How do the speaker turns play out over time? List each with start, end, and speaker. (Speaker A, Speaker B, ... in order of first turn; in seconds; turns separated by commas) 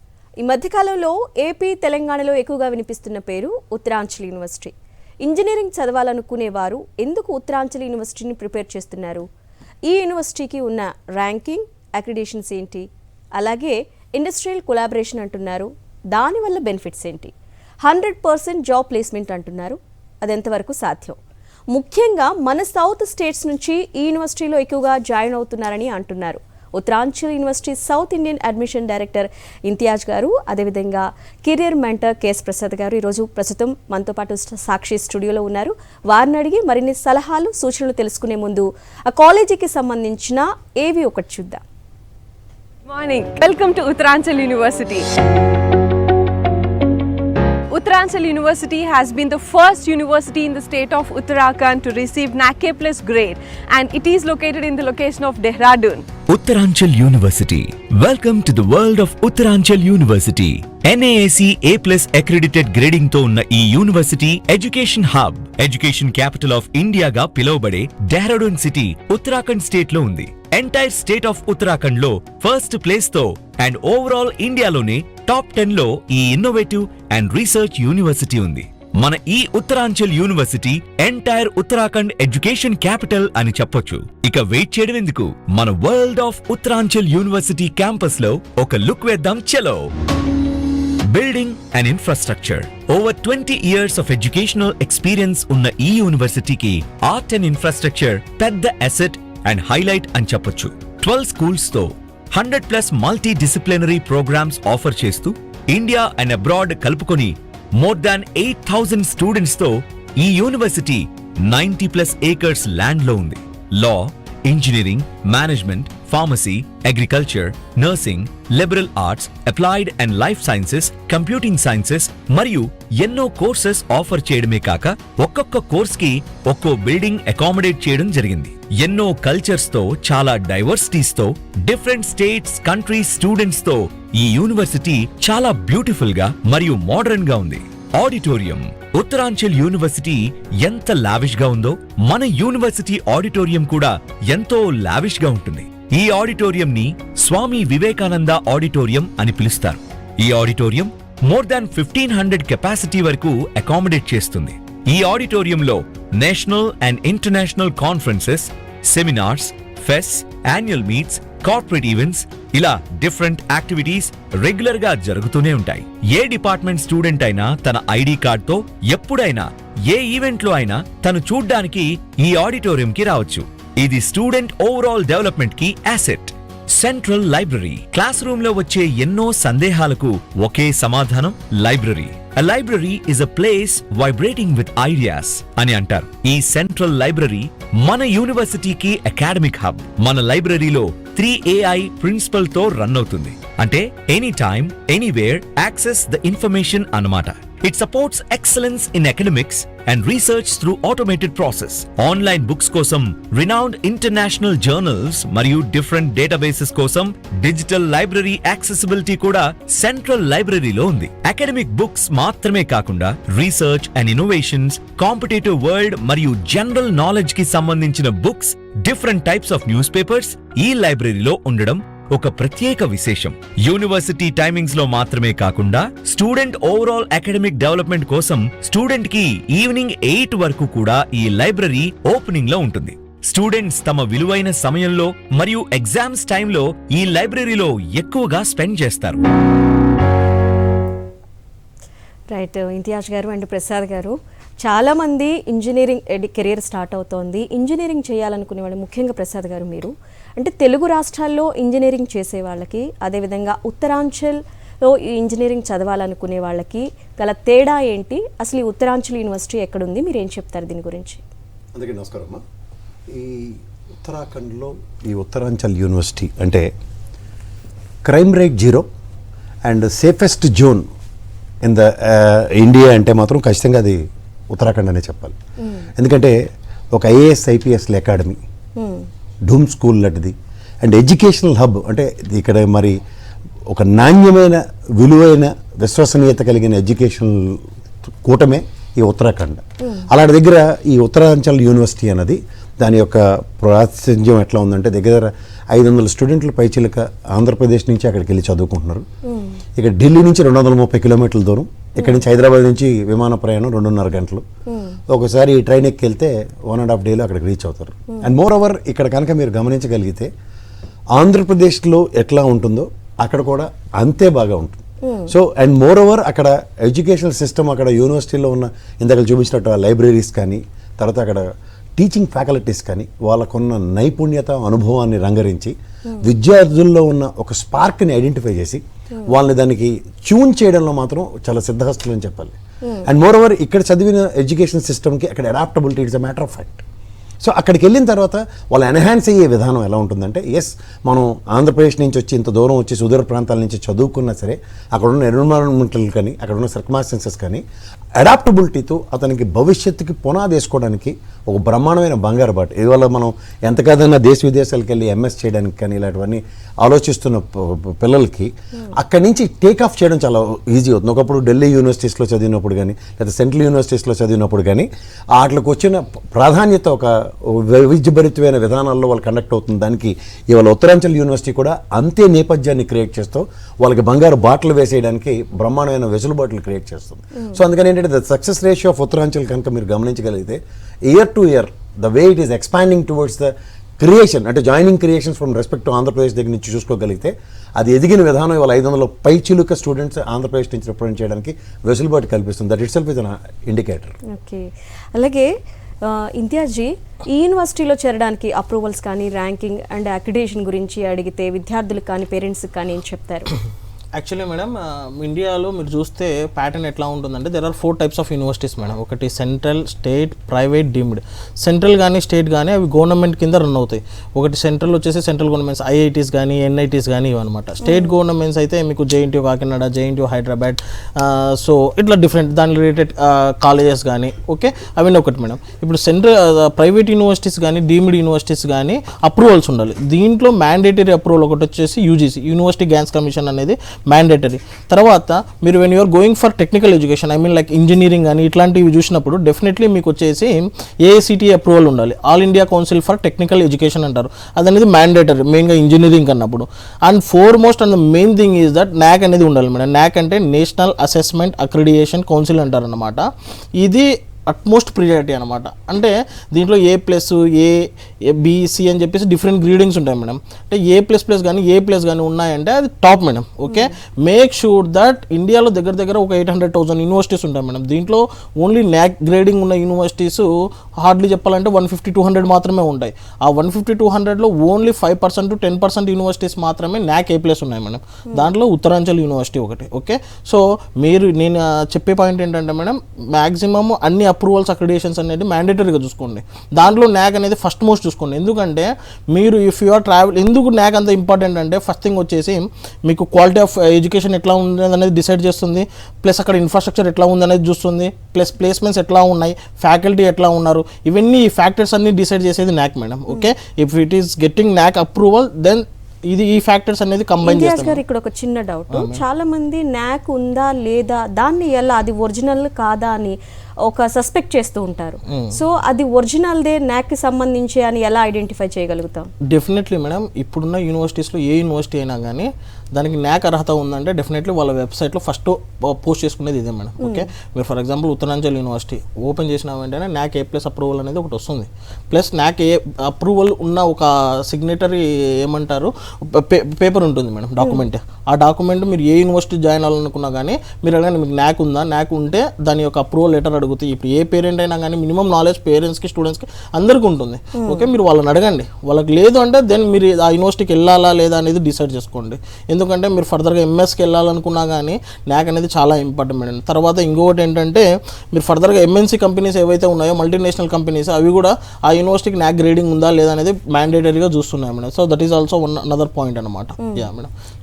Speaker A: 0.4-9.3, Speaker A: 9.9-21.2, Speaker A: 21.7-41.6, Speaker B: 42.9-45.1, Speaker B: 47.7-56.1, Speaker C: 56.3-89.9, Speaker C: 91.1-239.2, Speaker A: 242.3-261.2, Speaker D: 261.7-262.4, Speaker D: 263.1-266.7, Speaker D: 268.0-268.9, Speaker D: 269.6-270.9, Speaker D: 271.6-275.4, Speaker D: 275.9-276.4, Speaker D: 276.9-278.4, Speaker A: 278.8-279.1, Speaker D: 279.4-283.0, Speaker D: 283.7-299.1, Speaker A: 299.2-299.6, Speaker D: 299.8-304.4, Speaker A: 304.7-305.0, Speaker D: 305.1-310.3, Speaker D: 311.1-321.4, Speaker A: 315.0-315.3, Speaker D: 322.0-336.8, Speaker D: 337.4-347.6, Speaker D: 348.2-394.1, Speaker A: 394.3-403.5, Speaker E: 404.1-453.3, Speaker A: 417.8-418.1, Speaker E: 453.8-508.0, Speaker A: 463.7-463.9, Speaker A: 507.4-519.3, Speaker E: 508.9-509.2, Speaker E: 515.3-515.6, Speaker E: 519.5-567.3, Speaker A: 547.6-547.9